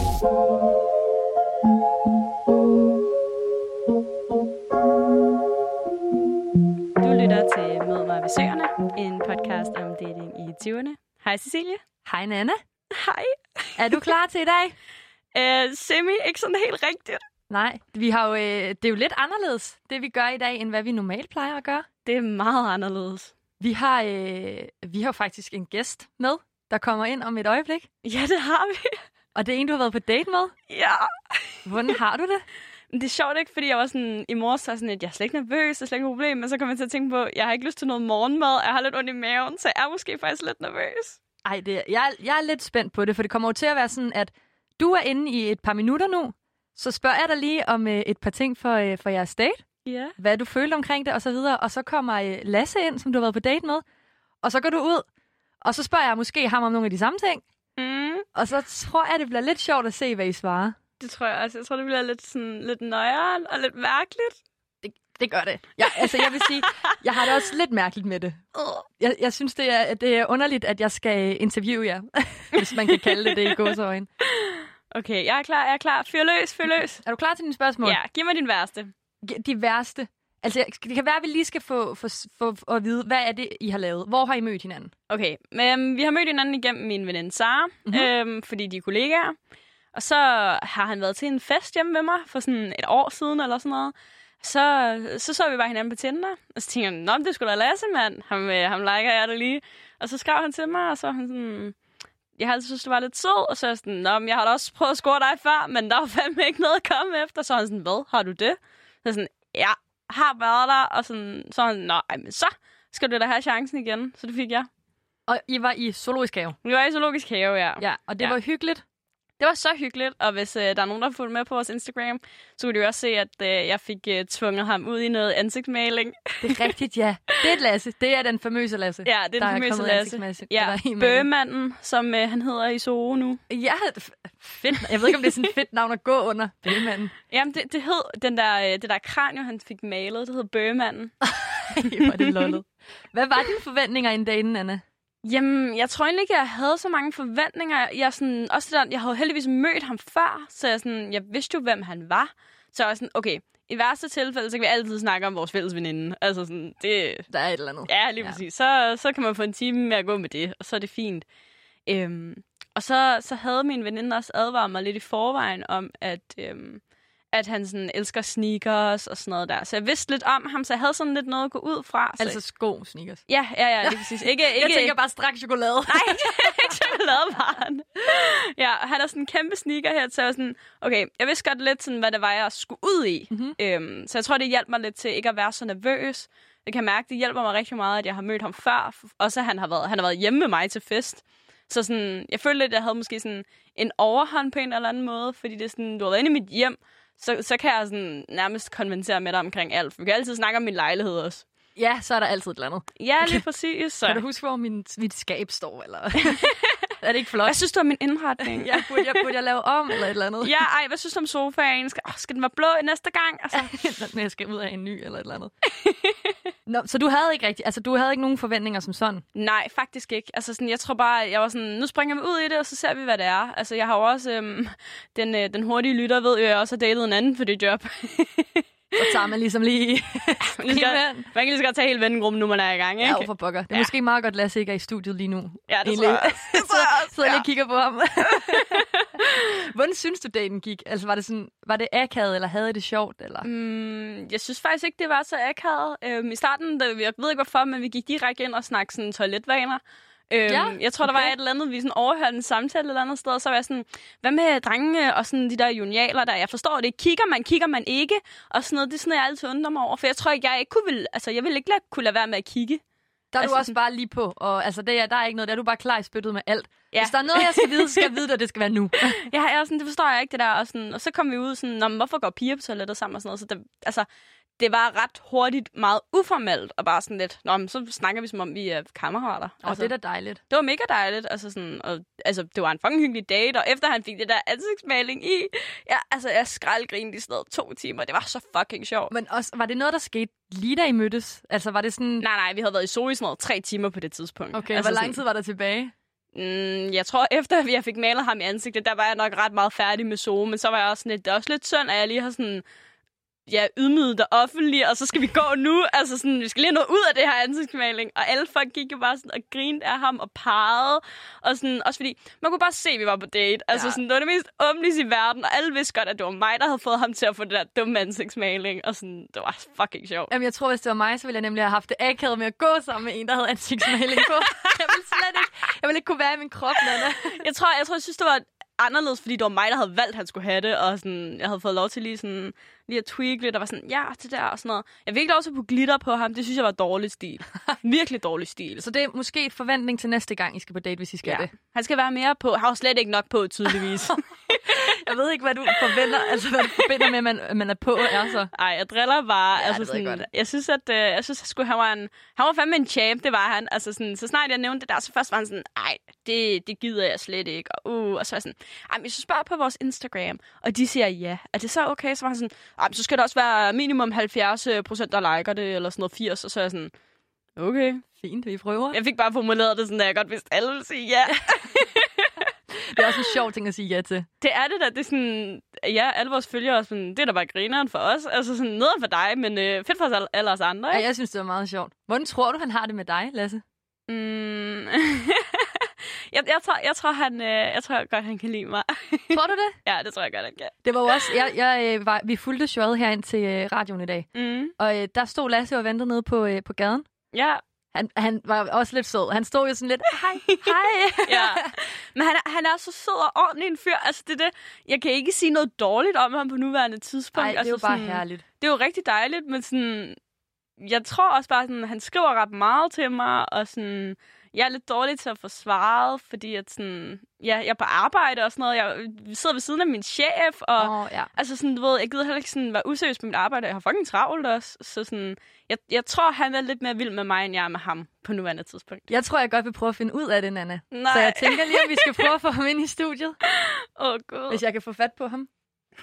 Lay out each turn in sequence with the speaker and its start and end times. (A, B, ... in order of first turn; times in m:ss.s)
0:07.0-0:11.8 A
0:12.0-0:12.6 B
0:12.9-0:14.0 A
0:13.8-0:14.7 B
0:15.3-0:17.2 A
0:17.5-0:21.8 B
0:22.0-0:23.3 A
0:23.6-0:27.9 B
0:28.0-0:29.0 A
0:29.3-0:30.5 B
0:30.7-0:31.6 A
0:31.6-0:32.4 B
0:32.9-0:41.2 A
0:41.4-0:49.6 B
0:49.8-0:50.1 A
0:50.2-0:53.8 B
0:54.4-0:55.0 B
0:55.6-0:57.4 B
0:57.8-0:58.2 A
0:58.3-1:00.8 B
1:01.0-1:04.4 A
1:04.8-1:08.4 B
1:06.0-1:06.7 A
1:08.5-1:08.8 A
1:09.0-1:14.1 B
1:12.6-1:13.4 A
1:14.2-1:17.0 A
1:17.0-1:18.0 B
1:17.8-1:18.9 A
1:19.2-1:24.9 B
1:25.1-1:29.4 A
1:29.9-1:41.7 A
1:42.4-1:54.7 A
1:55.3-1:56.6 B
1:56.6-1:58.4 A
1:57.8-1:58.8 B
1:59.4-2:06.7 A
2:06.4-2:11.3 B
2:09.0-2:13.4 A
2:13.5-2:17.1 B
2:15.0-2:15.4 A
2:17.3-2:21.1 A
2:21.2-2:24.8 B
2:21.8-2:22.6 A
2:25.2-2:37.3 A
2:37.3-2:38.4 B
2:37.9-2:41.2 A
2:41.9-2:46.8 A
2:47.3-2:52.4 A
2:52.2-2:53.2 B
2:53.3-2:55.0 A
2:53.8-2:56.8 B
2:55.9-3:21.4 A
3:03.3-3:03.6 B
3:21.8-3:23.4 B
3:23.0-3:24.2 A
3:24.0-3:27.6 B
3:26.3-3:26.7 A
3:27.4-3:29.3 A
3:28.5-3:30.5 B
3:30.4-3:33.8 A
3:33.5-3:35.5 B
3:35.8-3:36.1 A
3:36.7-3:39.2 B
3:39.3-3:49.2 A
3:49.0-3:51.3 B
3:50.6-3:53.9 A
3:53.0-4:03.5 B
3:55.7-3:57.4 A
3:58.4-3:59.1 A
4:03.4-4:22.8 A
4:10.5-4:11.3 B
4:23.3-4:29.2 B
4:23.4-4:23.7 A
4:26.9-4:28.1 A
4:29.2-4:34.0 A
4:34.6-4:39.9 A
4:39.6-4:40.4 B
4:40.5-4:49.1 A
4:49.1-4:52.2 B
4:52.2-4:55.2 A
4:54.5-4:55.9 B
4:56.3-5:02.6 A
5:03.5-5:20.3 A
5:13.7-5:14.0 B
5:20.3-5:27.4 B
5:26.9-5:38.8 A
5:38.8-5:41.5 B
5:41.2-5:44.2 A
5:44.6-5:48.5 B
5:48.5-6:06.9 A
5:49.5-5:50.2 B
6:07.6-6:08.0 A
6:08.2-6:09.0 B
6:08.9-6:12.4 A
6:12.8-6:14.3 B
6:14.4-6:21.0 A
6:20.9-6:23.6 B
6:24.1-6:31.3 A
6:29.3-6:29.8 B
6:30.8-6:37.0 B
6:34.3-6:34.7 A
6:37.3-6:37.6 A
6:37.9-6:41.7 B
6:41.2-6:50.2 A
6:47.4-6:48.4 B
6:50.8-7:09.1 A
7:00.8-7:01.3 B
7:09.1-7:13.4 B
7:10.9-7:12.3 A
7:13.5-7:14.6 A
7:14.5-7:15.5 B